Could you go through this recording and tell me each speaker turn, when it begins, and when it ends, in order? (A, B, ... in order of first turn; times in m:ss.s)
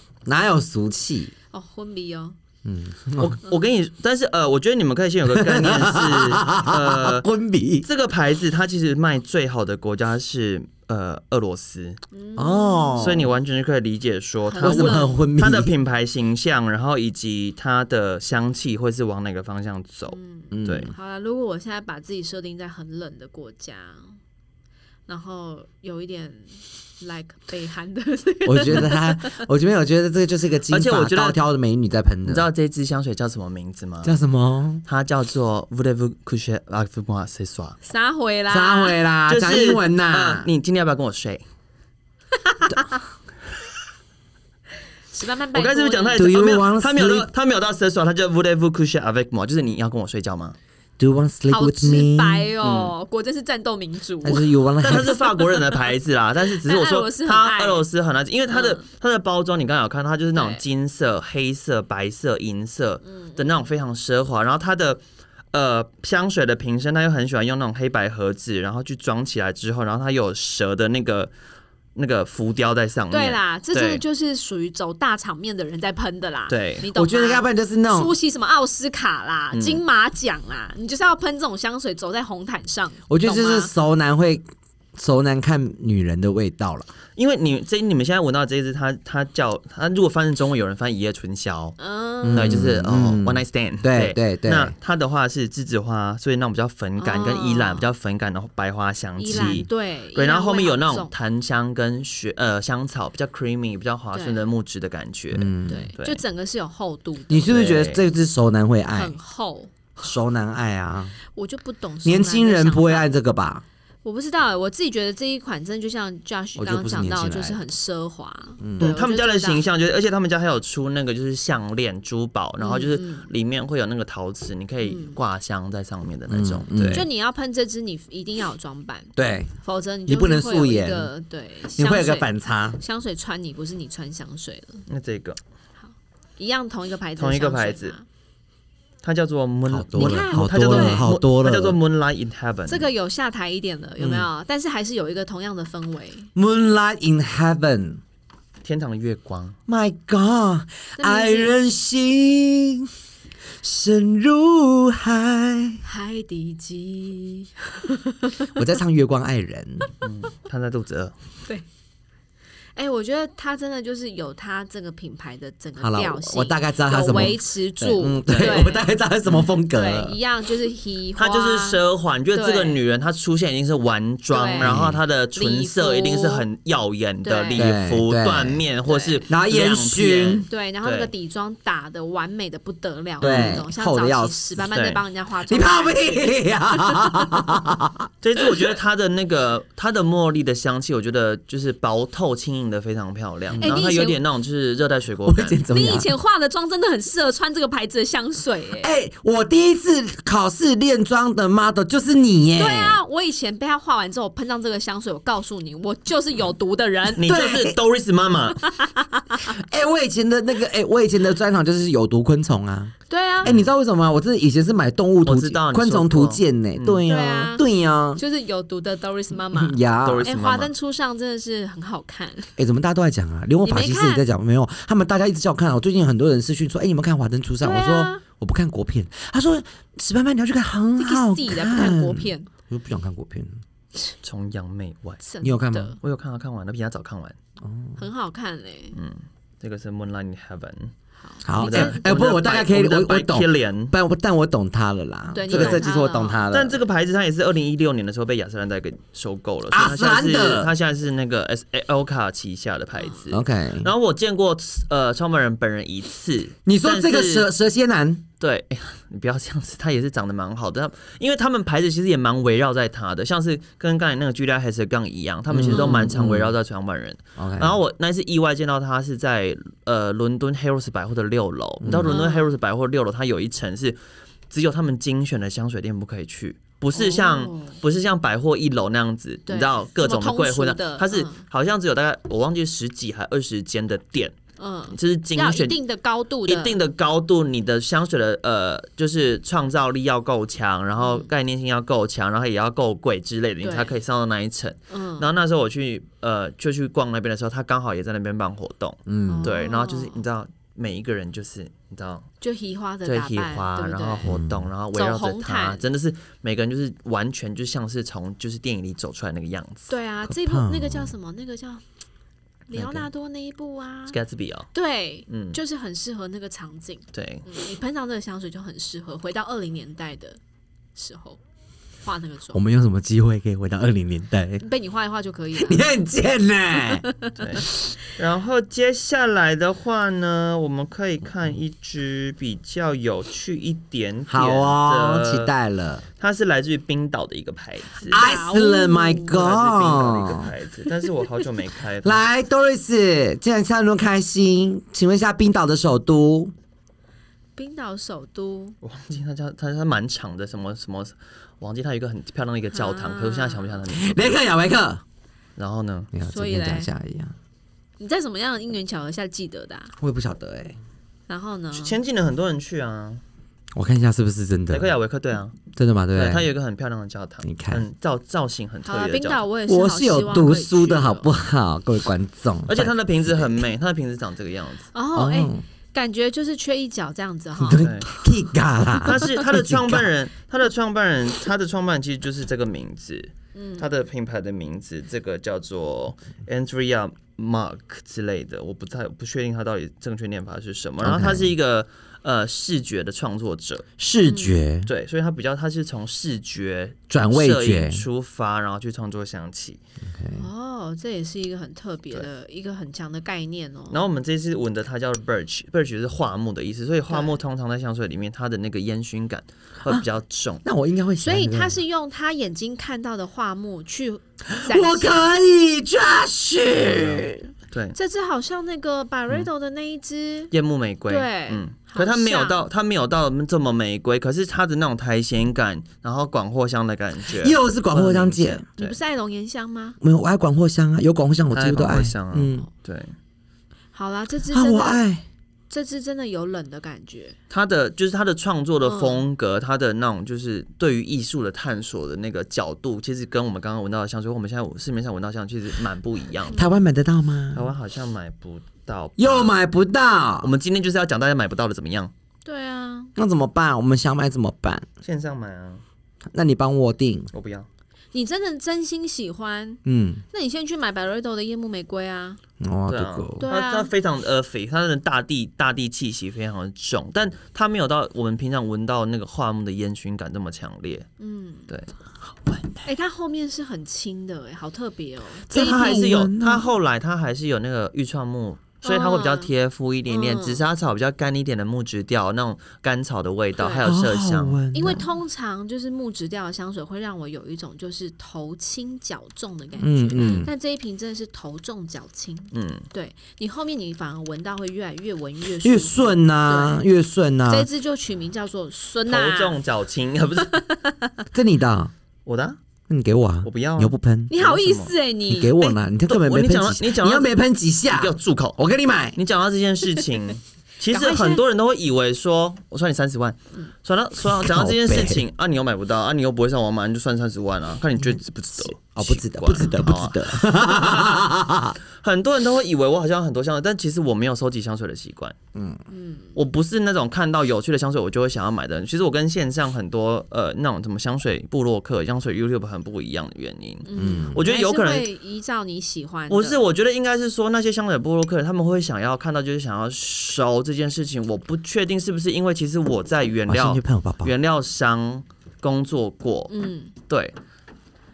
0:00.2-0:01.3 A
0:01.5-0:02.4 B
0:02.6-0:03.4 A
0:03.2-0:07.3 C
0:05.3-0:07.9 A
0:07.8-0:12.0 C
0:12.1-0:13.2 B
0:12.4-0:13.3 A
0:13.0-0:20.9 C
0:14.4-0:15.2 B
0:14.6-0:15.7 A
0:20.1-0:24.2 B
0:20.5-0:20.9 A
0:25.1-0:29.4 B
0:28.4-0:32.5 A
0:30.7-0:31.4 C
0:32.2-0:34.1 C
0:34.0-0:34.8 A
0:34.8-0:37.8 C
0:37.8-0:39.0 B
0:38.5-0:40.5 A
0:39.3-0:41.4 C
0:42.4-0:43.0 B
0:45.1-0:46.3 B
0:45.5-0:50.6 C
0:46.1-0:47.3 A
0:51.0-0:52.5 A
0:51.5-0:55.9 B
0:52.6-0:52.9 C
0:54.2-0:55.2 A
0:54.8-1:05.0 C
0:56.5-0:57.8 B
0:58.5-0:58.8 B
1:00.3-1:00.6 B
1:03.0-1:03.5 B
1:05.5-1:11.3 C
1:11.9-1:14.0 C
1:13.1-1:23.7 B
1:16.5-1:16.8 C
1:16.9-1:18.1 A
1:19.5-1:19.8 C
1:23.1-1:24.4 A
1:24.9-1:26.9 A
1:27.2-1:31.8 C
1:31.8-1:32.6 B
1:32.2-1:34.7 A
1:32.3-1:46.2 C
1:37.0-1:37.9 B
1:39.2-1:41.1 B
1:44.1-1:44.5 B
1:45.3-1:45.9 A
1:45.7-1:47.6 B
1:47.3-1:49.2 A
1:47.5-1:48.0 C
1:48.9-1:49.7 B
1:50.0-1:51.2 A
1:51.3-1:53.1 B
1:52.0-1:53.6 A
1:54.0-1:59.6 B
1:56.6-1:57.6 A
1:58.6-1:58.9 A
1:58.8-2:07.1 C
2:02.6-2:03.3 B
2:04.8-2:05.2 B
2:06.3-2:07.1 A
2:06.9-2:14.8 B
2:09.2-2:09.5 A
2:10.1-2:11.1 A
2:11.8-2:12.8 A
2:14.9-2:15.4 C
2:15.8-2:18.0 B
2:17.2-2:18.0 C
2:19.0-2:22.9 C
2:19.7-2:21.8 A
2:20.0-2:21.1 B
2:22.7-2:26.3 B
2:24.0-2:24.3 A
2:26.4-2:28.0 A
2:28.6-2:29.6 C
2:29.7-2:32.9 A
2:31.0-2:31.5 B
2:33.6-2:35.8 A
2:35.8-2:38.6 B
2:38.5-2:39.9 A
2:40.0-2:41.1 C
2:42.8-2:48.9 B
2:45.8-2:50.2 A
2:48.3-2:48.6 C
2:49.7-2:51.8 B
2:51.2-3:01.1 C
2:52.3-2:52.8 B
2:54.3-2:54.8 B
2:54.6-2:55.0 A
2:55.4-2:56.4 B
2:57.2-2:57.6 B
2:57.5-2:58.6 A
2:58.8-2:59.2 B
2:59.3-3:00.4 A
3:00.5-3:07.4 B
3:03.2-3:03.6 C
3:03.2-3:04.5 A
3:04.7-3:05.0 C
3:05.5-3:08.1 A
3:08.2-3:15.6 C
3:13.5-3:13.8 A
3:13.6-3:14.2 B
3:15.2-3:16.1 A
3:15.7-3:18.9 B
3:18.8-3:23.0 A
3:22.6-3:27.2 B
3:27.2-3:28.7 C
3:27.2-3:27.8 A
3:28.6-3:29.5 B
3:29.6-3:38.2 A
3:33.1-3:33.5 B
3:33.4-3:33.7 C
3:35.2-3:37.0 C
3:37.0-3:37.6 B
3:38.2-3:42.5 B
3:39.5-3:40.3 A
3:40.0-3:40.7 C
3:42.6-3:53.6 A
3:43.6-3:44.2 B
3:47.6-3:48.2 B
3:51.0-3:52.5 B
3:54.2-3:55.2 C
3:55.2-3:56.0 B
3:55.4-3:55.9 A
3:56.0-3:57.4 C
3:57.6-3:58.0 A
3:58.0-3:59.0 B
3:58.9-4:00.9 C
4:01.2-4:02.1 B
4:01.4-4:06.8 A
4:01.6-4:03.9 C
4:05.3-4:06.4 B
4:05.5-4:05.8 C
4:06.5-4:17.5 C
4:09.7-4:10.7 A
4:13.0-4:13.2 B
4:13.3-4:13.9 A
4:16.6-4:18.2 A
4:18.4-4:34.0 C
4:25.5-4:26.5 A
4:25.7-4:26.1 B
4:27.4-4:27.8 A
4:31.8-4:32.2 A
4:32.0-4:32.5 B
4:34.5-4:44.4 C
4:36.9-4:37.8 B
4:39.5-4:41.4 B
4:44.6-4:46.8 B
4:44.9-4:45.8 C
4:46.4-5:02.3 C
4:51.0-4:51.3 B
4:53.6-4:53.9 B
4:54.9-4:55.3 B
4:59.1-4:59.5 A
4:59.3-5:00.2 B
5:02.4-5:04.3 B
5:03.0-5:09.9 C
5:04.2-5:04.7 A
5:04.9-5:05.8 B
5:09.9-5:11.8 B
5:10.2-5:11.1 A
5:12.7-5:14.2 B
5:12.8-5:13.0 C
5:14.1-5:14.7 C
5:14.7-5:20.4 B
5:15.3-5:15.6 C
5:17.1-5:17.5 C
5:20.9-5:21.4 B
5:22.0-5:22.6 B
5:22.5-5:24.6 A
5:24.6-5:25.9 B
5:25.6-5:27.0 A
5:26.8-5:27.4 B
5:27.4-5:35.5 C
5:34.3-5:36.0 A
5:36.2-5:38.3 C
5:38.1-5:40.5 A
5:38.1-5:39.4 B
5:39.2-5:42.3 C
5:42.0-5:46.5 A
5:47.6-5:48.8 B
5:48.8-5:54.4 C
5:52.7-5:53.8 B
5:53.9-5:55.0 A
5:55.6-5:56.1 C
5:56.1-5:57.4 A
5:56.3-5:56.9 B
5:58.0-5:59.9 B
6:00.0-6:00.8 A
6:01.3-6:02.0 B
6:01.7-6:03.2 C
6:03.7-6:04.9 A
6:04.7-6:05.6 C
6:05.7-6:06.5 A
6:06.1-6:09.4 C
6:07.4-6:07.8 A
6:08.8-6:11.3 B
6:09.7-6:13.6 A
6:12.7-6:14.9 C
6:14.9-6:17.9 B
6:15.1-6:15.6 A
6:17.6-6:20.1 A
6:17.8-6:18.1 C
6:19.0-6:33.9 C
6:23.5-6:23.8 B
6:31.0-6:31.5 A
6:34.0-6:34.9 A
6:34.2-6:34.6 B
6:34.8-6:39.8 C
6:37.1-6:38.0 A
6:40.0-6:40.4 A
6:40.3-6:44.0 B
6:43.9-6:50.6 C
6:47.1-6:47.4 B
6:50.6-6:51.8 A
6:51.2-6:55.2 B
6:54.5-6:57.4 A
6:56.8-6:58.0 C
6:57.9-7:00.5 B
7:00.5-7:09.0 C
7:01.1-7:02.6 B
7:07.3-7:08.6 A
7:08.8-7:10.0 B
7:10.0-7:12.7 A
7:11.5-7:13.1 C
7:13.9-7:15.0 B
7:14.5-7:15.2 A
7:15.7-7:17.4 B
7:17.5-7:26.6 C
7:18.8-7:19.2 B
7:26.5-7:27.7 A
7:27.5-7:29.6 C
7:29.2-7:30.5 A
7:30.4-7:32.1 C
7:32.4-7:33.1 B
7:33.2-7:34.9 A
7:35.0-7:35.8 C
7:36.3-7:37.3 A
7:37.3-7:37.7 C
7:38.1-7:42.4 B
7:39.8-7:40.2 A
7:42.6-7:43.5 A
7:42.9-7:51.1 C
7:43.4-7:43.9 B
7:51.2-7:51.7 B
7:52.4-7:52.8 A
7:52.8-7:56.1 B
7:55.5-7:56.7 A
7:55.5-8:04.6 C
7:58.8-7:59.5 B
8:00.1-8:00.6 B
8:03.6-8:03.9 B
8:03.8-8:05.0 A
8:04.7-8:16.8 B
8:09.8-8:10.5 A
8:10.2-8:10.4 C
8:12.5-8:12.8 C
8:15.6-8:17.7 A
8:17.5-8:19.6 B
8:19.1-8:20.6 C
8:20.4-8:21.2 B
8:21.3-8:21.9 A
8:22.2-8:22.6 C
8:22.9-8:24.3 A
8:23.4-8:24.9 C
8:24.3-8:25.8 B
8:25.3-8:29.2 A
8:26.1-8:27.3 C
8:27.9-8:28.6 C
8:29.2-8:41.2 C
8:30.9-8:31.4 B
8:34.2-8:35.2 A
8:38.6-8:41.8 A
8:42.0-8:45.3 C
8:45.5-8:45.8 A
8:45.9-8:46.4 B
8:46.3-8:55.1 C
8:53.8-8:56.6 B
8:54.0-8:54.4 A
8:56.3-9:06.5 C
9:03.5-9:04.3 A
9:06.5-9:06.9 B
9:07.1-9:07.3 C